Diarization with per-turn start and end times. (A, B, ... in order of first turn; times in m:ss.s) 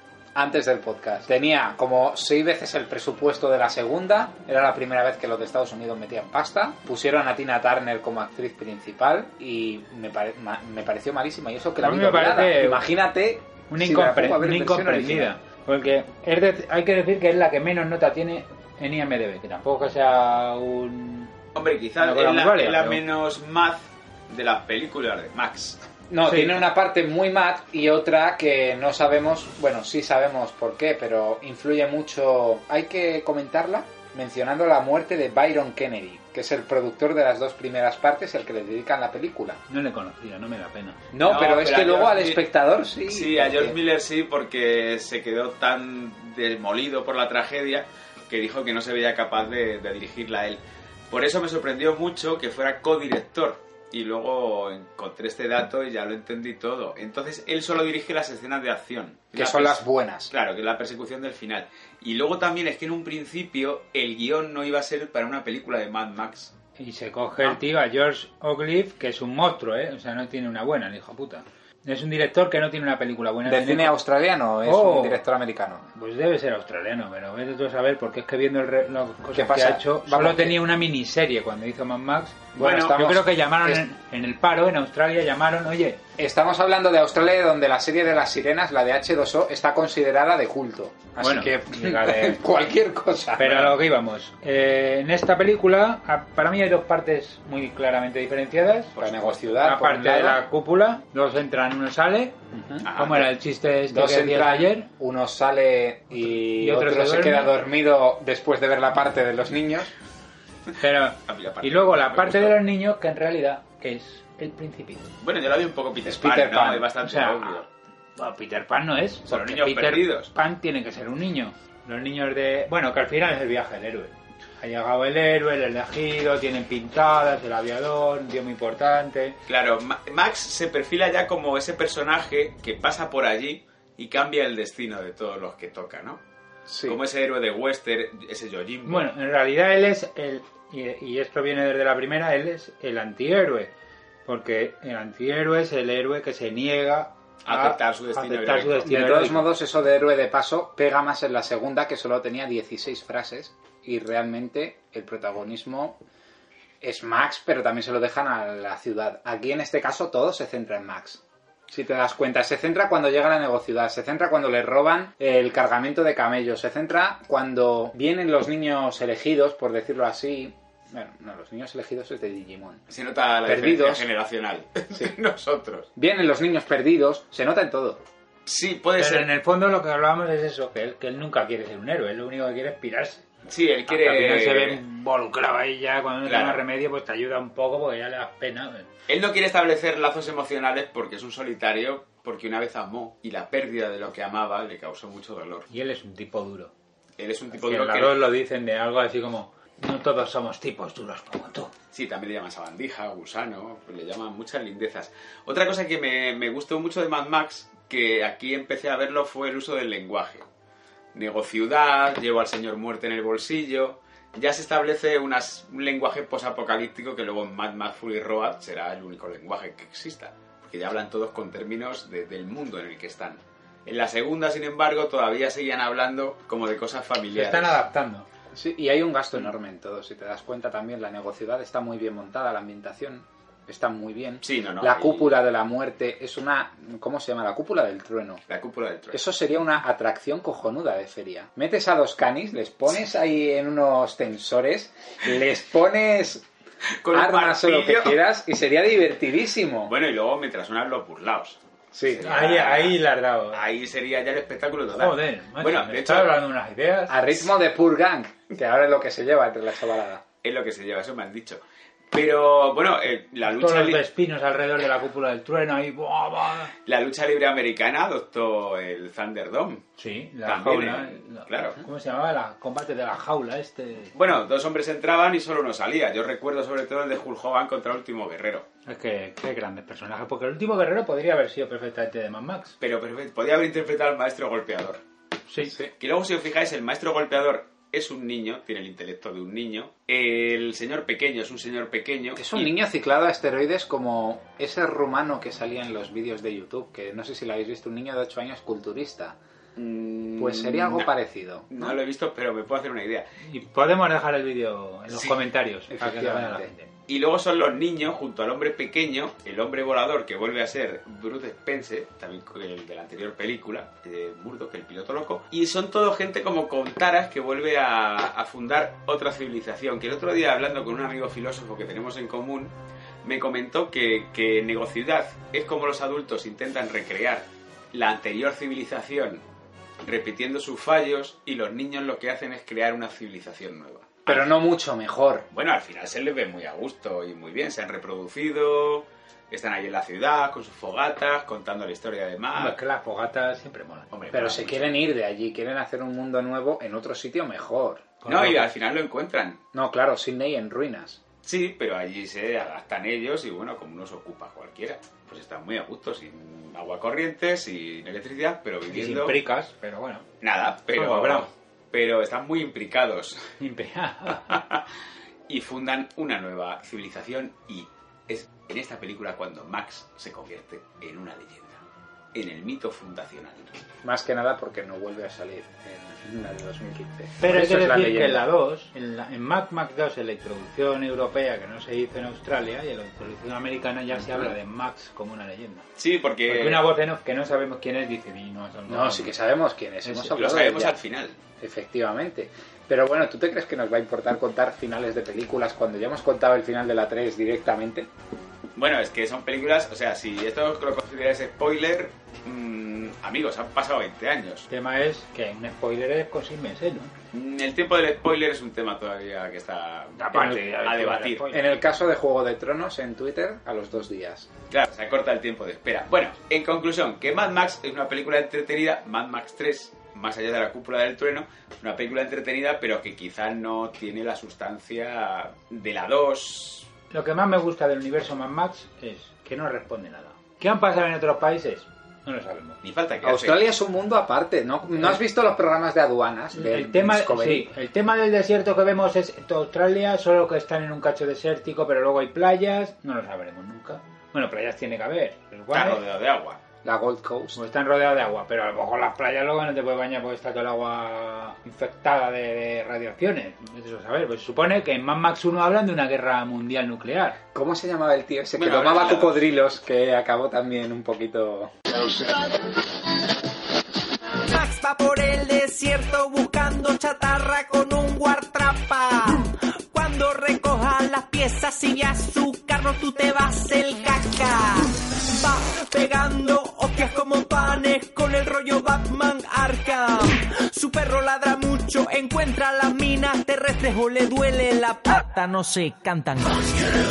0:00.4-0:15.3 A
0:11.8-0:12.8 B
0:13.7-0:21.3 B
0:21.6-0:25.8 C
0:22.0-0:23.0 B
0:26.1-0:39.6 A
0:26.2-0:26.6 B
0:39.7-0:41.0 B
0:41.1-0:43.8 A
0:41.2-0:42.4 C
0:43.0-1:06.5 C
0:59.4-1:00.3 A
1:06.8-1:14.0 B
1:13.5-1:15.9 A
1:14.6-1:15.2 B
1:16.0-1:26.0 B
1:19.3-1:20.6 A
1:22.6-1:23.8 A
1:22.6-1:23.1 C
1:26.2-1:33.7 A
1:31.2-1:32.4 B
1:33.4-1:39.0 B
1:39.0-1:39.6 C
1:39.0-1:40.4 A
1:39.6-1:42.4 B
1:42.5-1:42.9 A
1:42.8-1:43.3 C
1:42.9-1:44.9 B
1:43.9-1:49.9 A
1:46.3-1:47.5 B
1:50.8-1:55.0 B
1:51.2-1:52.6 C
1:55.2-1:57.7 C
1:56.0-1:56.9 A
1:57.0-1:57.6 B
1:58.2-2:09.4 B
1:59.3-2:00.3 C
2:09.5-2:16.2 C
2:16.7-2:17.0 A
2:16.9-2:19.1 C
2:18.9-2:23.7 B
2:24.3-2:29.5 B
2:27.4-2:29.0 C
2:28.9-2:36.0 A
2:36.8-2:52.8 A
2:52.9-2:55.9 C
2:53.5-2:54.1 A
2:56.0-2:58.0 A
2:58.5-2:59.3 C
2:59.0-3:03.3 B
3:03.5-3:04.8 C
3:03.9-3:08.9 B
3:06.2-3:06.6 C
3:09.1-3:15.7 C
3:15.7-3:16.7 B
3:17.2-3:18.2 C
3:17.5-3:21.7 B
3:21.9-3:30.4 C
3:31.1-3:47.8 C
3:47.3-3:48.3 B
3:48.5-3:58.4 A
3:54.4-3:55.3 C
3:58.5-3:59.2 C
3:59.1-4:06.4 A
4:07.0-4:08.2 C
4:07.1-4:09.9 A
4:09.9-4:13.0 C
4:11.9-4:12.4 A
4:12.2-4:13.6 B
4:13.5-4:16.3 C
4:15.0-4:17.2 B
4:17.1-4:20.2 A
4:20.4-4:21.6 C
4:22.1-4:24.0 C
4:23.5-4:26.7 B
4:26.9-4:29.8 C
4:30.0-4:34.1 B
4:30.5-4:31.8 C
4:34.1-4:38.7 C
4:38.9-4:42.8 B
4:42.8-4:45.0 C
4:45.5-4:45.7 B
4:45.7-4:45.9 A
4:46.0-4:52.7 C
4:52.4-4:59.4 A
4:59.8-5:01.1 C
5:00.4-5:02.0 A
5:01.7-5:03.3 C
5:03.4-5:06.9 B
5:05.1-5:05.4 C
5:05.9-5:06.7 A
5:07.1-5:22.7 C
5:23.2-5:29.4 C
5:30.0-5:34.5 C
5:34.3-5:35.5 A
5:35.5-5:42.8 C
5:42.6-5:44.1 B
5:44.1-5:44.9 C
5:44.3-5:48.1 A
5:48.2-5:48.7 B
5:48.3-5:49.6 C
5:49.7-5:51.2 A
5:51.4-5:59.4 C
5:58.9-6:00.2 B
6:00.4-6:03.4 C
6:01.0-6:01.5 B
6:03.6-6:04.6 B
6:04.5-6:04.8 C
6:05.5-6:11.8 C
6:12.3-6:13.8 C
6:14.0-6:18.4 A
6:17.4-6:25.9 B
6:26.0-6:26.8 C
6:26.5-6:29.4 B
6:28.9-6:31.0 A
6:30.0-6:30.4 B
6:30.3-6:31.4 C
6:31.6-6:38.1 A
6:38.8-6:44.7 C
6:44.7-6:47.1 B
6:47.3-6:51.4 C
6:50.2-6:51.6 B
6:51.5-6:54.5 A
6:54.7-7:06.9 C
7:07.1-7:12.8 B
7:12.8-7:13.6 C
7:13.2-7:17.7 A
7:16.5-7:26.0 B
7:25.7-7:26.6 C
7:26.8-7:27.6 A
7:27.6-7:37.4 B
7:37.5-7:41.7 A
7:38.6-7:39.4 C
7:44.5-8:06.8 D